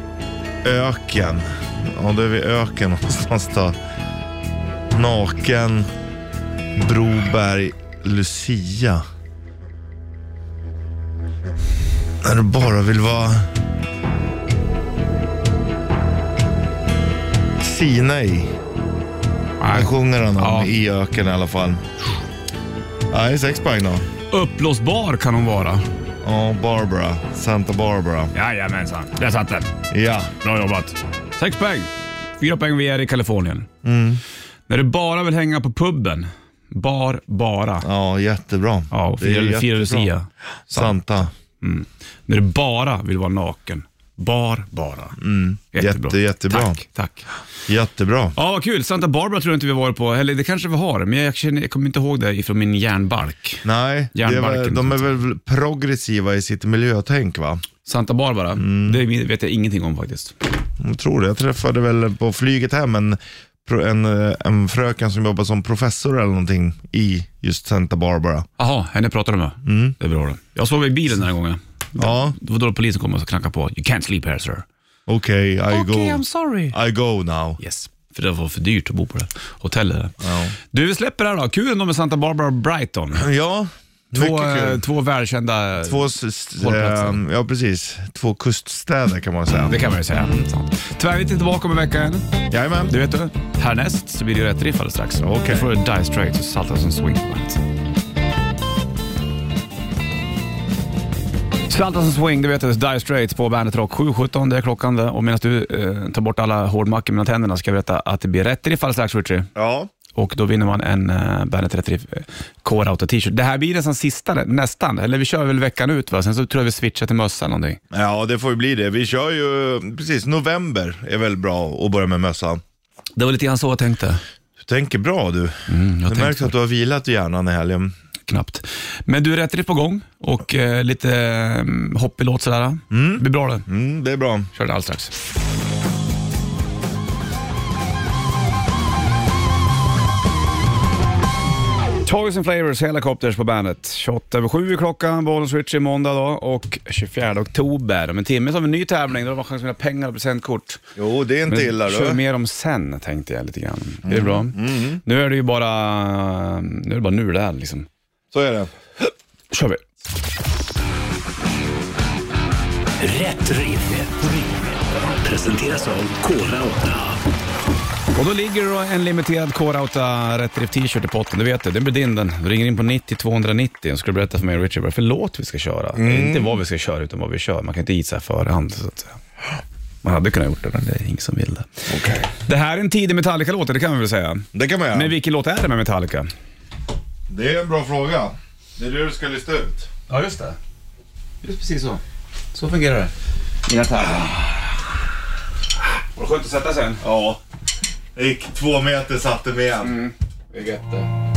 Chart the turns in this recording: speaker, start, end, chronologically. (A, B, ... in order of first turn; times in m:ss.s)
0:00.6-0:03.8 A
0:04.9-0:05.9 A
0:06.7-0:09.0 A
0:12.2-0:13.5 A
0:17.6-0:18.5 A
0:19.6-0:20.7 B
0:19.7-0:21.8 A
0:23.1-0:24.0 A
0:24.3-0:25.8 B
0:26.2-0:28.3 A
0:28.3-0:29.7 B
0:29.9-0:30.3 A
0:30.4-0:33.7 B
0:33.8-0:34.2 A
0:34.7-0:37.9 B
0:37.8-0:40.1 A
0:38.9-0:45.2 B
0:40.7-0:41.3 A
0:45.2-0:46.8 A
0:45.7-0:47.3 B
0:47.7-0:48.4 A
0:48.4-0:55.1 B
0:53.6-0:57.6 A
0:57.8-1:00.4 B
0:58.6-0:59.0 A
1:00.8-1:08.5 A
1:08.6-1:14.6 B
1:09.6-1:10.0 A
1:12.0-1:12.4 A
1:15.1-1:17.6 A
1:15.7-1:16.8 B
1:17.6-1:23.3 B
1:20.2-1:20.5 A
1:23.1-1:24.8 A
1:24.1-1:27.2 B
1:25.8-1:30.4 A
1:29.7-1:32.2 B
1:32.5-1:32.9 A
1:32.9-1:37.6 B
1:35.2-1:35.7 A
1:41.7-1:49.5 B
1:49.5-1:49.9 A
1:50.1-1:57.8 B
1:57.9-2:02.6 A
2:03.2-2:04.2 B
2:04.6-2:07.9 A
2:05.7-2:06.5 B
2:08.3-2:13.6 B
2:12.9-2:14.5 A
2:14.5-2:15.1 B
2:22.0-2:30.8 B
2:31.0-2:32.2 A
2:31.5-2:37.9 B
2:34.0-2:35.0 A
2:38.3-2:38.7 A
2:39.5-2:39.8 B
2:43.0-2:47.2 C
2:48.1-2:59.2 B
2:55.9-2:56.6 A
3:00.0-3:01.8 B
3:01.9-3:02.3 A
3:02.4-3:06.3 B
3:04.5-3:05.1 A
3:07.3-3:09.9 A
3:10.1-3:10.6 B
3:11.4-3:12.0 B
3:12.5-3:13.1 B
3:13.6-3:14.6 B
3:16.1-3:17.0 B
3:17.0-3:17.4 A
3:18.1-3:20.0 A
3:19.8-3:21.1 B